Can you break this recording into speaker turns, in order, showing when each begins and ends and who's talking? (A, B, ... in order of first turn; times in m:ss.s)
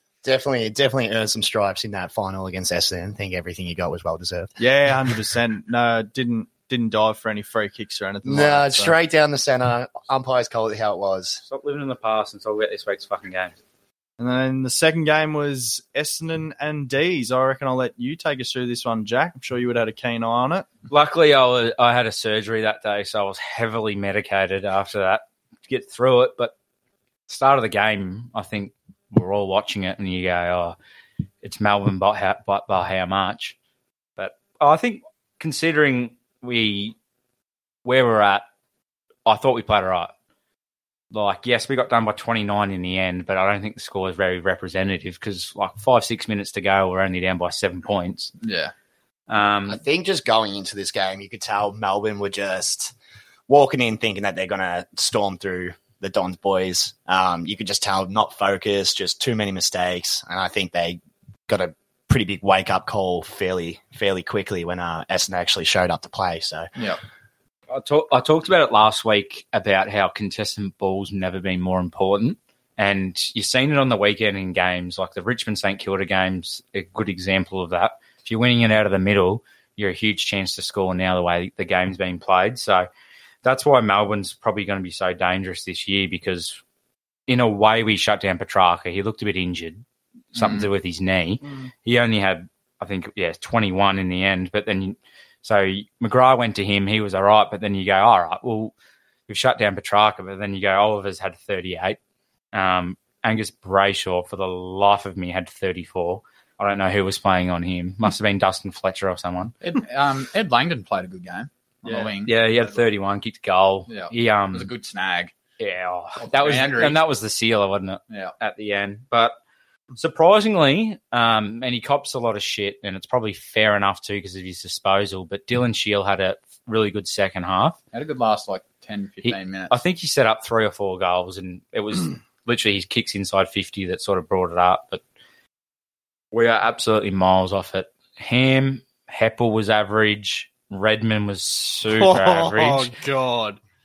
0:00.2-0:04.6 A
0:04.6-0:08.9 B
0:08.2-0:11.4 A
0:11.4-0:13.6 C
0:14.2-0:20.7 B
0:20.9-0:26.5 C
0:27.3-0:30.8 C
0:31.4-0:33.6 C
0:34.2-0:37.0 C
0:37.8-0:38.4 C
0:39.3-0:40.1 C
0:41.1-0:48.3 C
0:48.4-0:48.7 D
0:49.3-0:49.8 C
0:49.7-0:52.9 A
0:53.5-1:06.7 A
1:07.7-1:22.9 C
1:23.4-1:26.6 C
1:27.3-1:38.7 C
1:30.4-1:30.7 D
1:39.3-1:42.0 C
1:42.5-1:49.6 C
1:49.6-1:52.3 D
1:51.8-1:52.2 B
1:52.3-1:54.7 C
1:53.9-1:55.3 D
1:55.6-1:59.4 C
1:56.2-1:57.0 D
1:58.1-1:58.4 D
2:00.0-2:07.8 C
2:07.9-2:09.8 D
2:09.2-2:15.0 C
2:16.3-2:23.0 C
2:22.0-2:23.6 B